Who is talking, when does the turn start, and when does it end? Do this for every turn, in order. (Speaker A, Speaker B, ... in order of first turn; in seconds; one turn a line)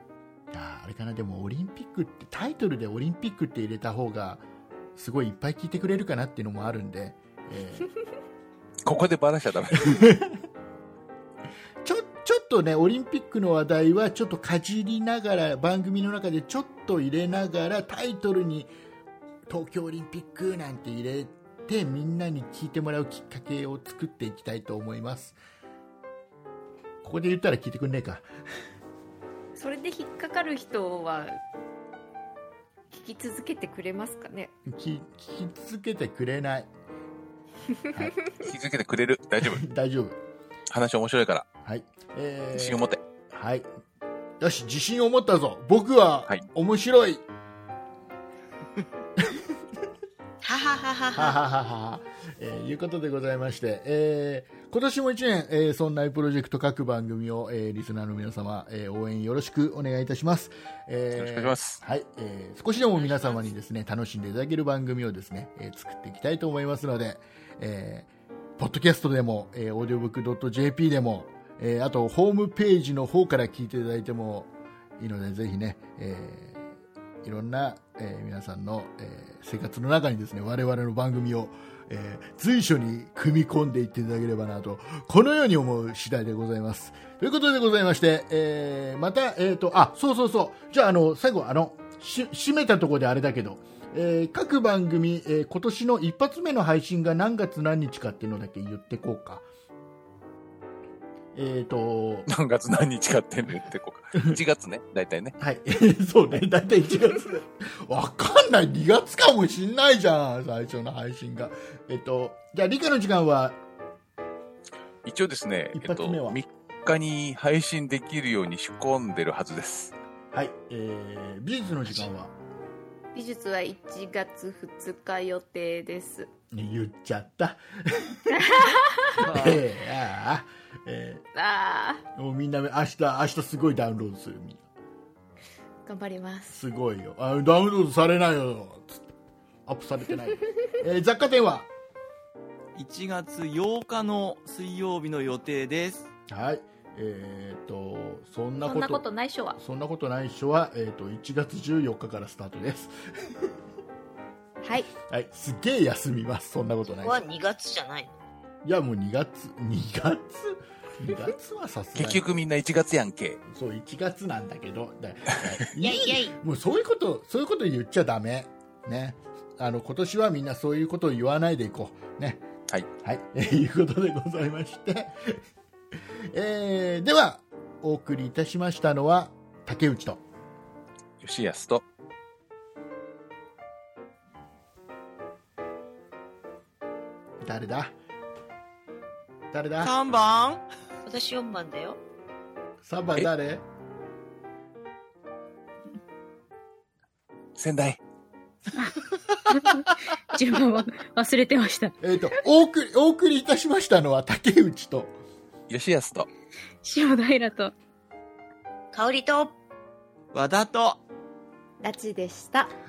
Speaker A: 0.5-7.9
Speaker B: 8.8-10.1
Speaker A: 9.8-10.3
Speaker A: 11.8-18.7
Speaker A: 19.5-25.4
Speaker A: 27.0-28.2
Speaker C: 29.6-31.4
Speaker C: 32.9-34.5
Speaker A: 34.6-36.7
Speaker B: 38.4-39.6
Speaker A: 39.4-40.2
Speaker B: 40.7-41.5
Speaker A: 41.6-43.7
Speaker B: 42.5-43.0
Speaker A: 44.4-47.2
Speaker A: 49.2-49.4
Speaker D: 50.4-51.4
Speaker A: 51.1-99.4
Speaker B: 61.1-61.8
Speaker D: 62.9-63.4
Speaker A: 101.3-102.3
Speaker B: 102.3-105.3
Speaker A: 105.4-113.6
Speaker B: 115.0-119.9
Speaker A: 115.7-116.4
Speaker A: 120.3-122.3
Speaker C: 123.1-126.3
Speaker A: 126.5-128.5
Speaker C: 128.3-129.2
Speaker A: 129.2-131.2
Speaker E: 129.2-129.6
Speaker C: 131.3-132.0
Speaker A: 132.1-134.6
Speaker C: 135.8-136.6
Speaker A: 136.5-139.1
Speaker A: 139.7-141.7
Speaker E: 142.7-146.1
Speaker A: 146.3-149.0
Speaker C: 148.6-149.6
Speaker A: 149.6-153.5
Speaker C: 154.6-154.9
Speaker A: 155.0-157.2
Speaker D: 157.0-158.2
Speaker A: 158.6-162.2
Speaker B: 161.9-163.4
Speaker A: 163.5-172.4
Speaker D: 165.8-166.3
Speaker A: 173.0-175.4
Speaker A: 176.3-180.2
Speaker B: 181.2-181.8
Speaker A: 187.4-187.9
Speaker A: 189.5-189.9
Speaker E: 189.8-190.6
Speaker D: 191.0-192.0
Speaker A: 192.8-193.7
Speaker B: 197.6-198.0
Speaker F: 199.5-201.9
Speaker A: 202.0-205.2
Speaker B: 205.7-206.3
Speaker F: 206.8-207.7
Speaker D: 208.9-209.5
Speaker E: 210.3-211.0
Speaker C: 211.8-212.7